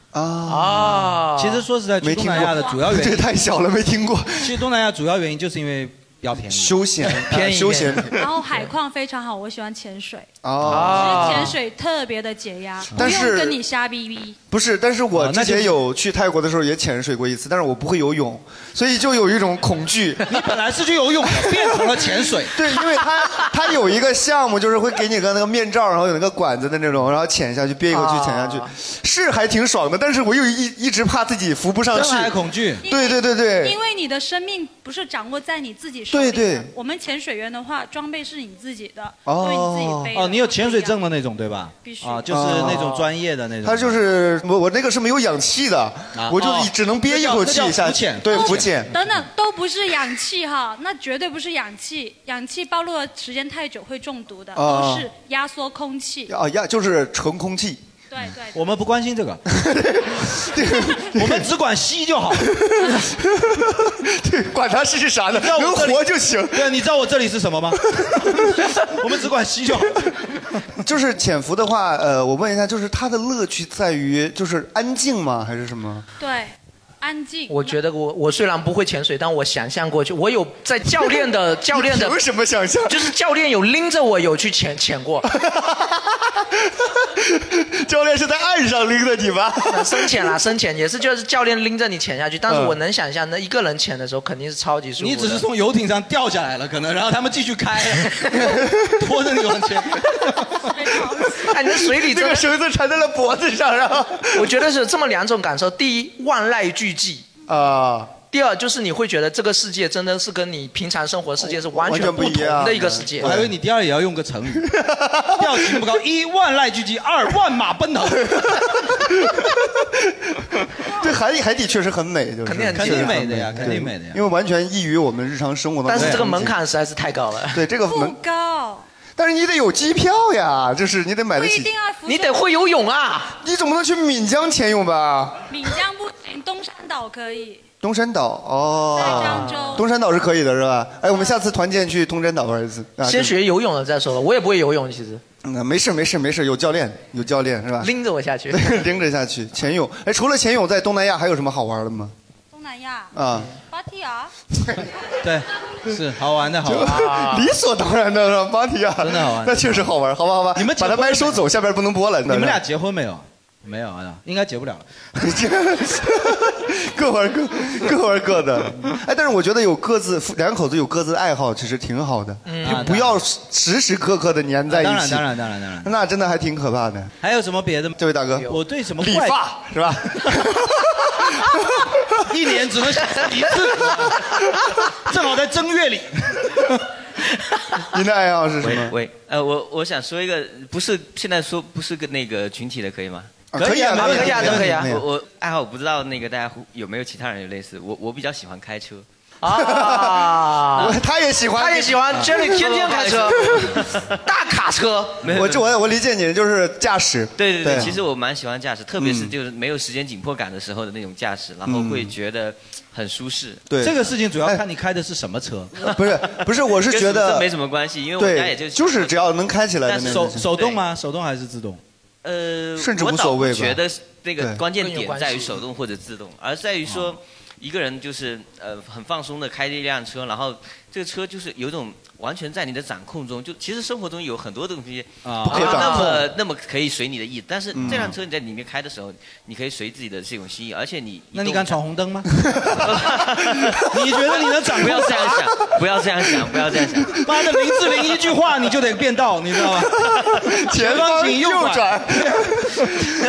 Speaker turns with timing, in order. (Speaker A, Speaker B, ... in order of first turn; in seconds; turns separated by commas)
Speaker A: 0.1-1.0, Speaker B: 0.5-1.6, Speaker C: 1.4-3.2, Speaker A: 2.0-4.6, Speaker D: 2.4-2.8, Speaker C: 4.4-7.3, Speaker A: 6.3-8.3, Speaker B: 7.1-8.1, Speaker D: 8.2-10.3, Speaker A: 10.4-11.5, Speaker C: 10.7-10.9, Speaker B: 10.7-11.6, Speaker D: 10.9-14.4, Speaker A: 12.9-13.6, Speaker A: 14.5-20.4, Speaker C: 15.1-15.8, Speaker C: 20.3-22.6, Speaker A: 22.5-33.8, Speaker B: 27.9-28.7, Speaker C: 31.9-32.9, Speaker D: 32.8-41.0, Speaker A: 36.1-36.7, Speaker A: 39.3-40.1, Speaker C: 40.1-44.0, Speaker D: 41.8-42.8, Speaker A: 42.3-43.1, Speaker A: 43.6-48.9, Speaker C: 46.1-49.3, Speaker D: 48.3-56.3, Speaker A: 54.5-55.1, Speaker A: 56.3-57.8, Speaker D: 58.1-58.6, Speaker C: 58.5-59.4, Speaker A: 59.5-61.5, Speaker C: 61.1-62.5, Speaker A: 62.4-66.7, Speaker C: 65.3-70.2, Speaker A: 68.0-68.7, Speaker A: 70.8-76.0, Speaker D: 76.2-77.7, Speaker B: 77.5-82.2, Speaker A: 81.7-83.1, Speaker B: 82.9-85.3, Speaker A: 85.3-90.3, Speaker B: 89.7-95.5, Speaker A: 92.5-92.8, Speaker C: 95.0-100.7, Speaker A: 98.4-99.1, Speaker D: 100.8-101.4, Speaker B: 101.3-102.5, Speaker A: 101.6-104.6, Speaker B: 104.3-107.3, Speaker A: 107.5-108.1, Speaker B: 108.3-113.3, Speaker A: 111.4-113.5, Speaker C: 113.2-114.8, Speaker A: 114.7-115.8, Speaker C: 115.3-118.7, Speaker A: 118.3-120.4, Speaker A: 120.9-126.5, Speaker B: 122.5-123.2, Speaker C: 122.7-124.2, Speaker B: 125.9-127.6, Speaker C: 126.0-126.2, Speaker A: 127.5-128.2, Speaker D: 127.9-128.9, Speaker A: 129.2-131.7, Speaker D: 131.3-132.5, Speaker B: 132.1-133.4, Speaker A: 133.4-135.5, Speaker D: 135.5-137.6, Speaker A: 137.8-143.4, Speaker D: 139.0-139.8, Speaker B: 139.0-139.8, Speaker B: 143.0-145.2, Speaker A: 145.4-147.9, Speaker B: 147.8-148.8, Speaker A: 148.5-152.1, Speaker D: 152.5-153.2, Speaker A: 153.1-153.5, Speaker D: 153.7-154.3, Speaker C: 155.2-157.0, Speaker A: 156.7-162.6, Speaker B: 156.7-157.5, Speaker C: 159.0-159.9, Speaker C: 160.6-161.4, Speaker C: 162.3-164.9, Speaker A: 165.2-177.1, Speaker B: 172.5-173.1, Speaker C: 172.6-173.2, Speaker C: 174.7-175.9, Speaker C: 177.2-179.4, Speaker A: 178.0-182.2, Speaker C: 182.3-184.4, Speaker C: 185.0-186.8, Speaker A: 187.9-188.9, Speaker E: 188.6-193.4, Speaker A: 193.5-195.1, Speaker B: 193.6-194.9, Speaker C: 193.6-194.8, Speaker E: 194.8-199.1, Speaker B: 199.4-201.0, Speaker A: 199.5-202.3, Speaker B: 201.5-203.7, Speaker E: 202.3-204.2, Speaker B: 204.2-205.2, Speaker E: 205.2-205.6, Speaker A: 205.3-208.0, Speaker E: 207.4-213.7, Speaker A: 209.0-209.3, Speaker A: 211.7-212.1, Speaker A: 213.7-214.6, Speaker C: 213.8-215.9, Speaker A: 215.9-217.5, Speaker E: 215.9-219.3, Speaker A: 218.2-220.5, Speaker E: 219.8-220.8, Speaker C: 220.0-221.8, Speaker E: 222.2-241.8, Speaker A: 222.8-223.8, Speaker B: 224.7-225.6, Speaker C: 235.2-236.3, Speaker A: 235.4-236.3, Speaker A: 237.7-238.2, Speaker C: 237.8-238.1, Speaker C: 241.3-242.5, Speaker A: 242.4-243.2, Speaker E: 242.8-247.2, Speaker C: 243.9-245.5, Speaker A: 247.2-248.1, Speaker C: 247.2-250.0, Speaker A: 249.7-253.0, Speaker C: 250.7-252.9